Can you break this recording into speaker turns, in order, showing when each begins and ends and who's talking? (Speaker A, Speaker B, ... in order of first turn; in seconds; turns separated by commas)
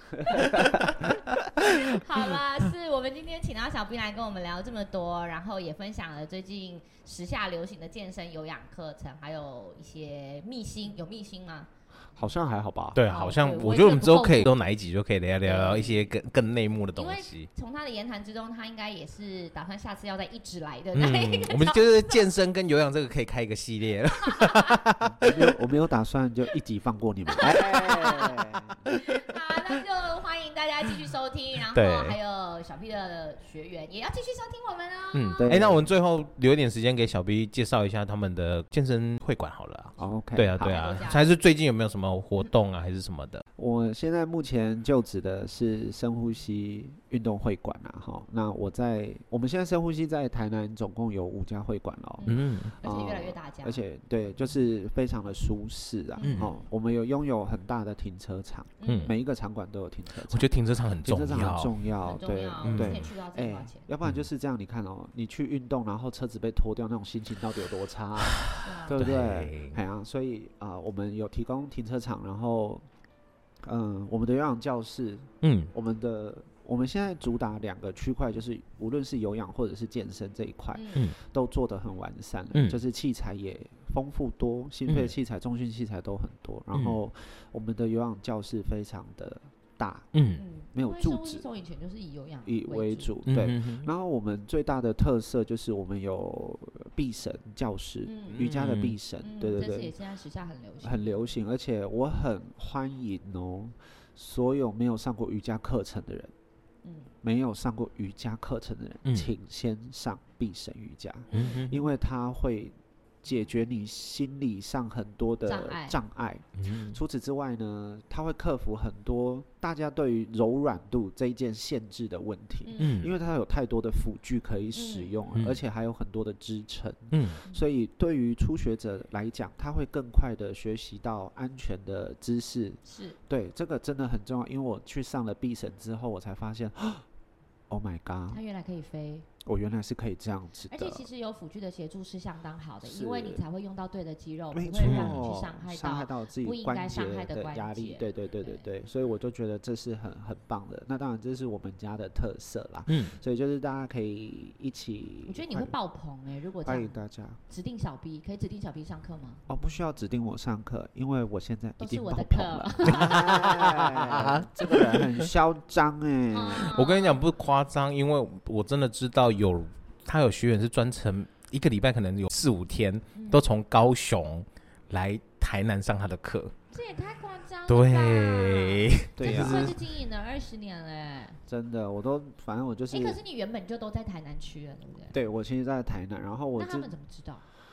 Speaker A: 0.1-1.2, Speaker B: 0.2-11.7, Speaker A: 12.2-13.0, Speaker C: 12.9-17.5, Speaker B: 13.1-14.5, Speaker B: 15.4-16.1, Speaker B: 17.0-22.2, Speaker C: 20.9-25.3, Speaker B: 24.3-24.7, Speaker A: 25.2-28.8, Speaker B: 27.4-35.6, Speaker C: 31.7-32.2, Speaker C: 35.1-43.4, Speaker A: 35.4-35.9, Speaker A: 40.0-40.8, Speaker B: 40.6-41.3, Speaker A: 43.6-60.5, Speaker B: 52.2-53.8, Speaker C: 52.3-52.8, Speaker B: 56.2-56.5, Speaker C: 56.2-56.5, Speaker B: 58.8-59.1, Speaker C: 58.8-59.1, Speaker C: 60.3-61.8, Speaker A: 61.0-72.8, Speaker B: 62.0-63.9, Speaker C: 62.6-63.1, Speaker C: 68.3-69.8, Speaker B: 68.6-69.0, Speaker A: 73.6-90.1, Speaker C: 75.4-75.7, Speaker B: 80.7-81.1, Speaker C: 82.5-82.8, Speaker C: 84.9-85.1, Speaker C: 90.1-90.4, Speaker B: 90.4-93.1, Speaker A: 90.7-91.5, Speaker A: 92.4-100.0, Speaker C: 93.2-93.9, Speaker B: 98.0-98.4, Speaker C: 98.4-99.0, Speaker B: 99.2-101.3, Speaker A: 100.8-106.3, Speaker B: 106.8-107.1, Speaker A: 107.2-137.1, Speaker C: 109.0-109.3, Speaker B: 111.3-111.7, Speaker C: 111.3-111.8, Speaker B: 115.5-116.0, Speaker C: 116.6-117.0, Speaker B: 122.7-123.0, Speaker C: 122.8-123.1, Speaker B: 124.7-125.1, Speaker C: 125.3-125.6, Speaker C: 127.1-127.4, Speaker B: 132.8-133.2, Speaker A: 137.7-138.4, Speaker B: 138.3-139.3, Speaker A: 139.4-141.1, Speaker B: 140.7-148.6, Speaker A: 142.8-143.4, Speaker A: 144.5-155.8, Speaker C: 144.8-145.3, Speaker C: 152.9-153.2, Speaker B: 155.2-156.9, Speaker A: 156.6-157.4, Speaker B: 157.5-159.4, Speaker A: 159.5-166.8, Speaker B: 161.8-163.2, Speaker C: 162.9-165.3, Speaker B: 166.3-167.3, Speaker C: 166.6-176.5, Speaker B: 173.2-173.5, Speaker B: 176.7-181.4, Speaker C: 177.7-179.8, Speaker A: 179.2-179.8, Speaker A: 181.5-183.2, Speaker B: 182.9-185.2, Speaker A: 185.1-186.9, Speaker B: 186.6-187.4